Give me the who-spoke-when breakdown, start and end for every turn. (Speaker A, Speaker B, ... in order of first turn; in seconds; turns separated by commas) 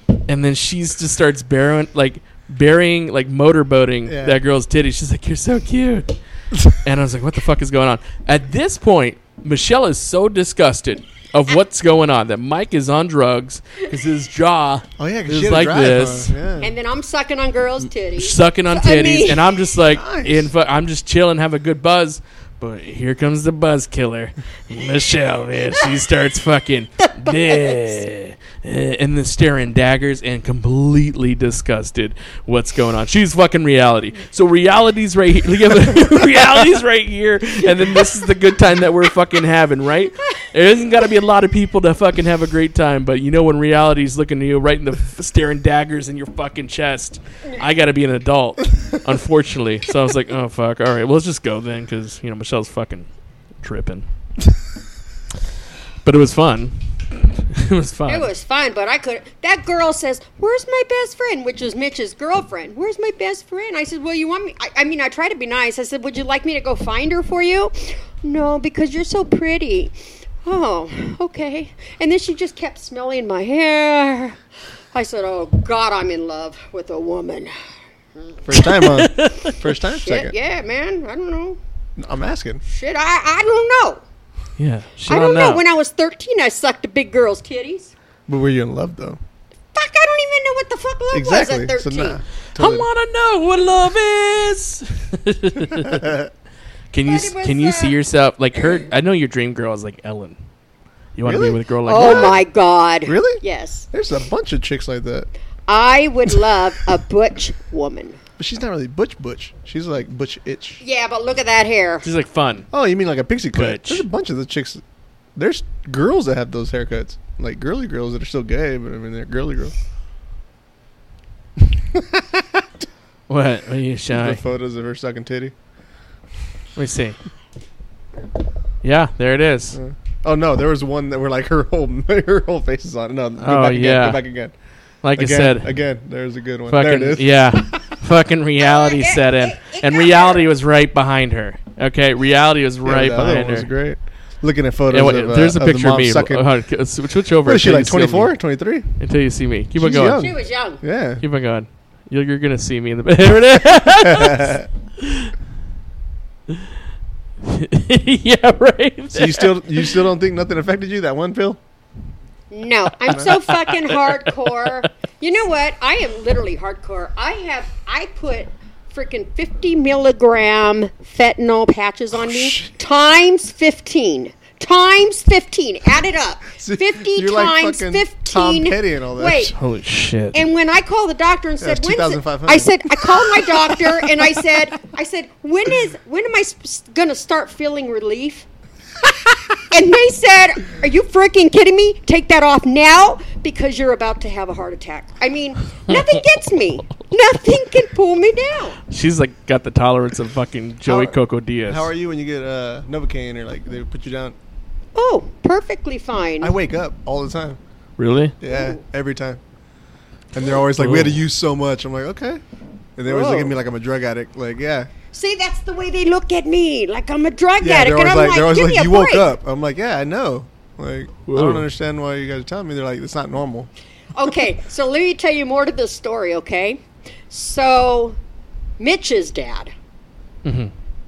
Speaker A: 0.3-16.4, Speaker B: 4.1-4.4, Speaker B: 15.0-16.7, Speaker C: 16.6-19.6, Speaker A: 18.2-53.1, Speaker B: 19.9-20.5, Speaker C: 27.2-28.1, Speaker A: 53.6-54.0, Speaker A: 56.0-56.8, Speaker A: 57.4-58.3, Speaker C: 58.1-69.9, Speaker C: 70.4-74.4, Speaker C: 74.9-77.5, Speaker B: 78.5-80.3, Speaker A: 78.6-79.5, Speaker C: 80.0-81.6, Speaker B: 82.0-82.6, Speaker C: 82.7-84.0, Speaker A: 84.6-85.6, Speaker C: 85.1-87.9, Speaker B: 88.3-89.2, Speaker C: 89.7-92.2, Speaker B: 91.1-92.9, Speaker A: 92.6-96.2, Speaker B: 95.8-96.3, Speaker A: 96.9-100.4, Speaker C: 97.1-98.0, Speaker A: 101.2-102.4, Speaker B: 101.2-102.4, Speaker C: 101.9-103.9, Speaker B: 103.0-105.3, Speaker C: 105.7-108.2, Speaker B: 108.4-110.8, Speaker C: 110.8-112.1, Speaker A: 112.0-112.7, Speaker B: 112.7-114.8, Speaker A: 113.5-114.0, Speaker B: 115.4-119.7, Speaker B: 121.9-122.6, Speaker A: 123.3-124.4, Speaker B: 124.1-125.5, Speaker A: 126.8-127.2, Speaker A: 128.8-129.8, Speaker B: 129.7-134.5, Speaker A: 133.4-134.2, Speaker A: 135.0-135.7, Speaker B: 135.2-137.8, Speaker A: 136.7-143.7, Speaker C: 138.6-140.5, Speaker B: 142.8-146.5, Speaker A: 144.9-148.4, Speaker B: 147.4-148.9, Speaker A: 149.0-150.2, Speaker B: 149.8-151.2, Speaker C: 150.1-150.8, Speaker A: 151.2-155.3, Speaker B: 153.8-154.7, Speaker A: 157.4-159.8, Speaker B: 159.1-161.6, Speaker C: 162.5-179.5, Speaker A: 163.1-164.8, Speaker B: 172.2-172.7, Speaker B: 176.6-179.5, Speaker A: 179.5-180.4, Speaker C: 180.3-188.5, Speaker B: 181.6-184.2, Speaker C: 189.5-198.8, Speaker A: 198.9-201.9, Speaker B: 200.9-204.4, Speaker C: 204.9-206.6, Speaker B: 206.4-207.6, Speaker A: 208.0-208.3, Speaker B: 208.4-209.4, Speaker C: 208.4-208.8, Speaker B: 210.3-212.4, Speaker A: 210.8-211.2, Speaker B: 213.0-214.9, Speaker C: 213.1-213.5, Speaker C: 215.1-219.3, Speaker B: 217.6-223.7, Speaker A: 221.3-221.7, Speaker C: 224.2-228.2, Speaker C: 228.8-229.7, Speaker A: 230.4-230.7